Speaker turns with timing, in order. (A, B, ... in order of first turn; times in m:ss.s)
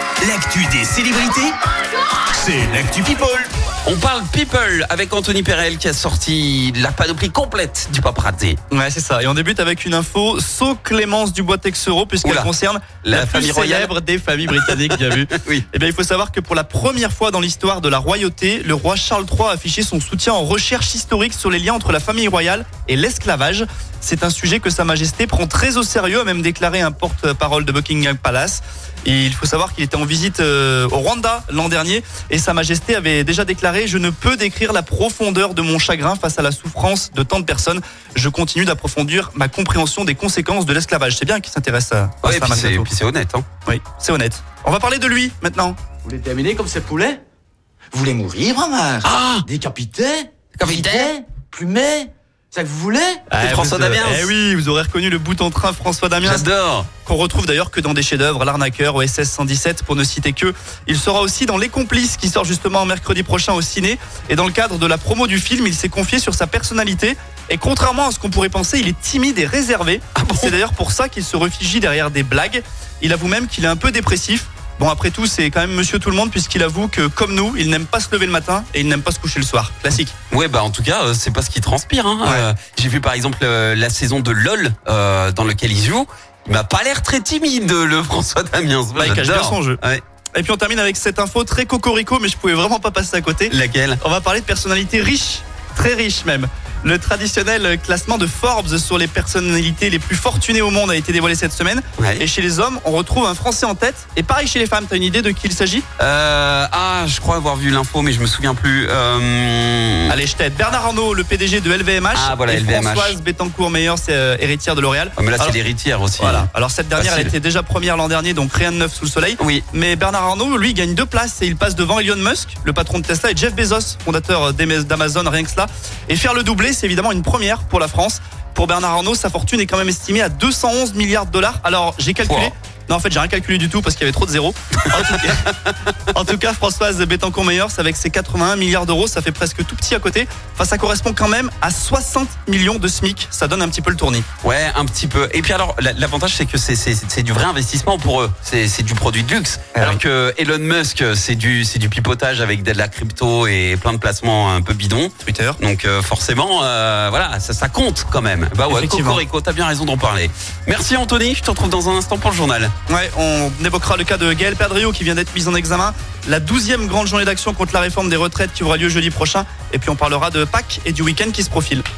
0:00.2-0:01.6 A
0:02.3-0:03.5 A
0:03.8-0:08.6 B
0:08.7-0:42.9 C
0:12.2-0:12.5 B
0:13.0-0:13.9 B
0:14.6-0:15.6 B
0:42.2-0:43.4 B
0:43.7-0:45.8 C
0:46.0-0:47.2 D
0:47.9-0:53.2 D
0:49.0-0:49.5 B
0:50.6-0:51.1 B
0:53.3-0:54.3 B
0:53.3-0:56.5 C
0:56.2-0:56.9 B
0:57.0-1:20.2 C
1:10.2-1:10.6 B
1:20.3-1:30.0 B
1:29.0-1:29.8 C
1:30.3-1:45.8 C
1:33.5-1:34.0 B
1:42.0-1:42.3 B
1:46.0-1:50.2 B
1:50.1-1:55.6 C
1:52.1-1:53.2 B
1:55.2-1:57.3 B
1:56.2-2:15.5 C
1:59.4-1:59.6 B
2:12.2-2:12.5 B
2:14.9-2:15.7 B
2:16.1-2:24.3 C
2:24.4-2:42.7 B
2:29.8-2:30.0 C
2:35.2-2:35.6 C
2:38.7-2:39.2 C
2:42.9-2:51.8 C